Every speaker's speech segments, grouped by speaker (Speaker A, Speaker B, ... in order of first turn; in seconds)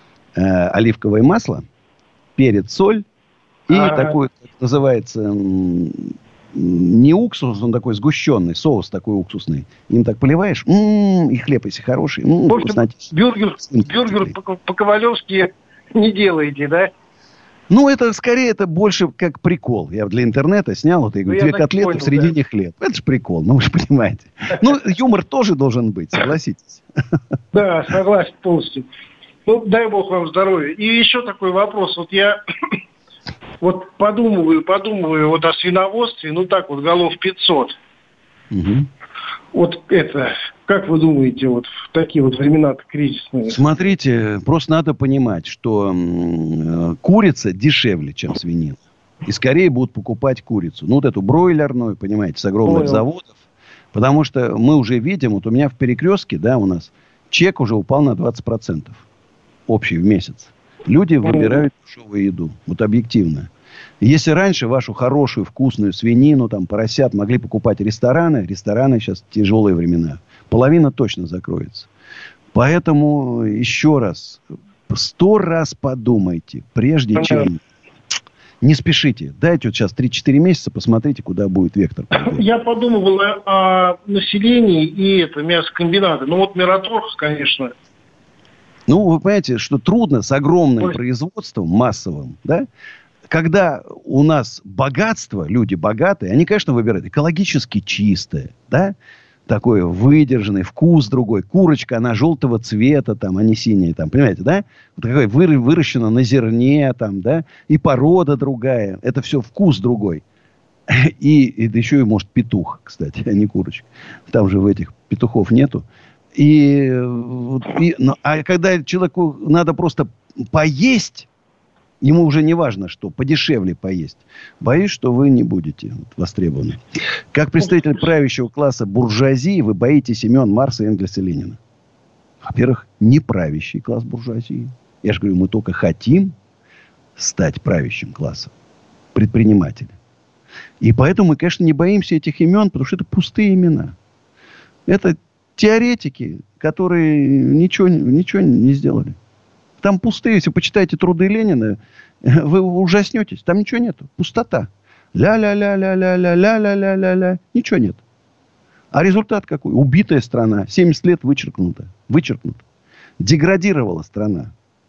Speaker A: 0.4-1.6, 2.4-3.0, 3.7-14.4, 17.7-26.8, 38.5-38.9, 43.5-53.4, 53.9-59.0, 59.7-63.5, 64.0-71.9, 72.5-77.6, 78.6-82.5, 88.9-92.7, 93.3-99.0, 99.5-110.2, 110.9-115.8, 116.3-121.3, 122.0-126.8, 127.3-131.6, 132.4-136.3, 137.2-138.5, 139.1-139.9, 140.8-143.9, 144.9-149.2, 149.8-158.0, 158.9-162.6, 163.2-164.5
Speaker B: 3.7-4.1, 12.5-16.9, 21.3-22.4, 27.5-28.9, 29.5-32.4, 33.6-37.8, 39.5-43.6, 52.6-53.0, 61.2-61.6, 77.2-77.5, 82.2-87.7